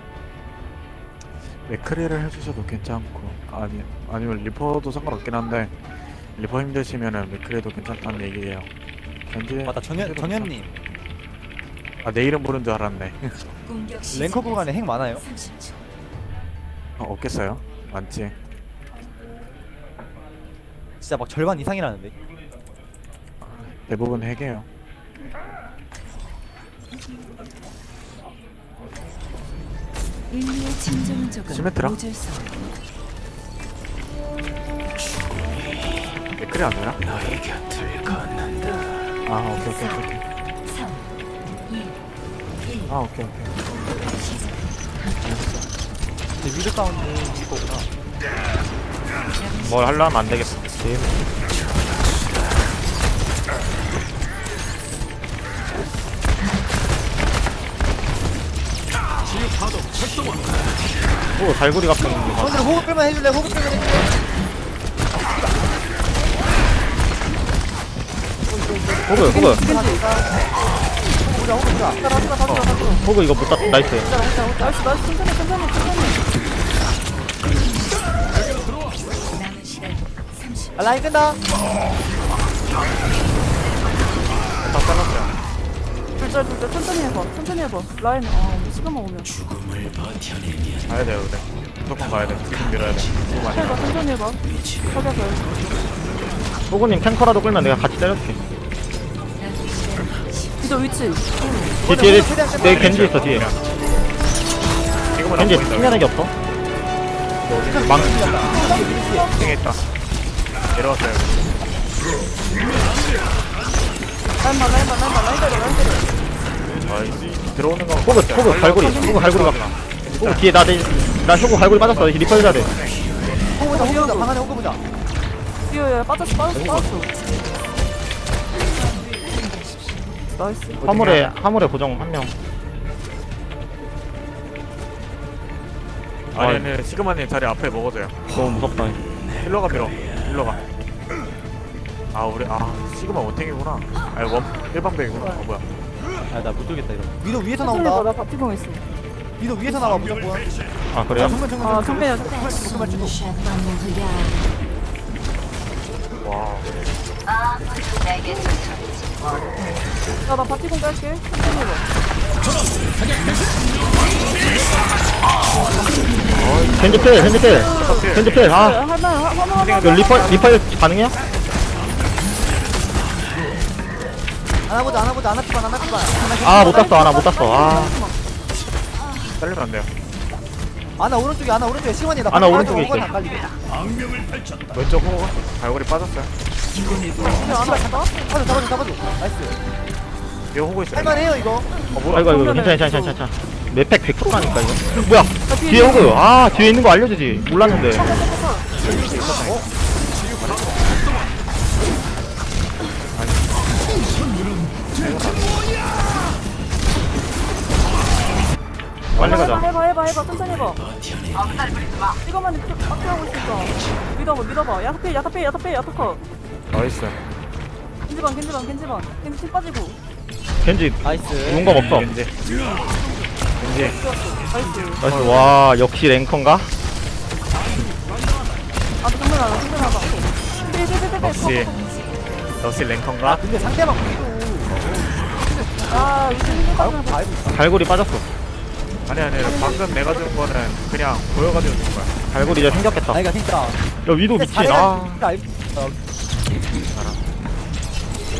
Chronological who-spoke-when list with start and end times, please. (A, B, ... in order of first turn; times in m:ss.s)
0:01.7-0:05.7 A
0:06.4-0:08.7 A
0:09.3-0:10.5 A
0:09.7-0:10.7 B
0:12.0-0:13.5 A
0:13.6-0:15.8 C
0:14.1-0:15.2 B
0:17.0-0:18.3 A
0:21.0-0:22.1 B
0:23.4-0:24.7 A
0:30.3-0:32.6 C
0:31.5-0:32.0 A
0:36.4-0:37.4 A
0:38.1-0:38.5 C
0:39.3-0:40.2 A
0:40.6-0:41.1 C
0:41.7-0:42.0 C
0:42.6-0:43.0 C
0:42.9-0:43.5 A
0:43.7-0:45.2 C
0:45.2-0:45.7 A
0:46.4-0:47.9 B
0:49.4-0:51.1 C
0:49.6-0:51.3 D
1:01.4-1:02.7 D
1:02.4-1:04.1 B
1:08.5-1:10.4 B
1:09.1-1:09.6 D
1:09.1-1:10.0 E
1:11.2-1:12.1 B
1:12.0-1:13.0 E
1:12.5-1:12.7 A
1:13.0-1:14.1 D
1:13.8-1:15.0 B
1:14.0-1:16.2 E
1:19.3-1:21.0 C
1:20.8-1:21.4 B
1:24.6-1:25.4 A
1:26.2-1:29.4 E
1:30.9-1:33.8 A
1:33.5-1:35.5 E
1:36.7-1:38.4 D
1:39.4-1:41.8 C
1:40.6-1:41.3 E
1:41.8-1:43.4 B
1:41.9-1:43.5 D
1:42.4-1:43.6 A
1:45.2-1:46.0 A
1:45.3-1:46.3 D
1:47.5-1:48.6 A
1:47.6-1:49.3 B
1:48.5-1:49.6 E
1:49.3-1:49.8 A
1:50.7-1:51.6 A
1:54.4-1:56.1 E
1:56.8-2:00.5 A
1:58.0-2:02.7 D
1:58.8-1:59.2 E
2:01.6-2:03.0 A
2:03.6-2:04.8 B
2:03.7-2:04.3 E
2:05.7-2:07.1 E
2:07.1-2:07.6 C
2:08.5-2:10.4 C
2:10.3-2:10.9 E
2:10.8-2:11.3 A
2:10.8-2:12.3 D
2:16.3-2:18.2 A
2:16.3-2:16.7 D
2:18.3-2:19.0 D
2:19.4-2:20.6 A
2:22.1-2:25.6 A
2:26.3-2:28.1 B
2:27.6-2:28.8 E
2:29.4-2:30.5 B
2:30.9-2:31.4 D
2:31.1-2:33.2 B
2:31.6-2:32.4 E
2:32.2-2:34.5 C
2:36.2-2:36.7 A
2:40.3-2:41.9 E
2:46.3-2:48.5 A
2:46.8-2:48.8 D
2:47.0-2:50.5 E
2:49.5-2:50.5 A
2:49.8-2:51.2 D
2:54.7-2:57.1 B
2:55.8-2:58.2 E
2:56.4-2:58.0 D
2:59.4-2:59.9 A
3:01.0-3:03.6 B
3:02.3-3:03.1 D
3:04.7-3:06.3 A
3:07.2-3:08.1 E
3:07.2-3:09.6 B
3:10.5-3:11.3 A
3:10.9-3:11.7 B
3:11.9-3:12.5 A
3:12.1-3:18.1 D
3:12.1-3:13.2 E
3:15.5-3:16.2 E
3:17.6-3:18.7 E
3:18.8-3:19.7 A
3:19.2-3:19.7 B
3:20.3-3:21.1 A
3:23.1-3:23.7 A
3:24.9-3:25.8 A
3:29.1-3:29.6 A
3:29.2-3:30.9 E
3:29.2-3:29.7 D
3:32.2-3:36.2 E
3:36.7-3:37.2 A
3:38.1-3:40.0 E
3:40.6-3:42.1 D
3:41.0-3:41.7 B
3:41.5-3:42.3 A
3:42.5-3:45.2 E
3:43.6-3:44.0 A
3:45.0-3:45.6 A
3:45.0-3:46.7 D
3:49.0-3:51.7 E
3:51.2-3:51.7 A
3:51.6-3:52.2 C
3:52.6-3:53.4 A
3:53.2-3:57.6 B
3:55.9-3:57.2 E
3:57.5-3:58.3 D
3:59.1-4:02.2 A
3:59.4-4:00.2 E
4:02.3-4:03.2 D
4:03.1-4:06.0 B
4:04.0-4:05.2 D
4:06.9-4:07.2 A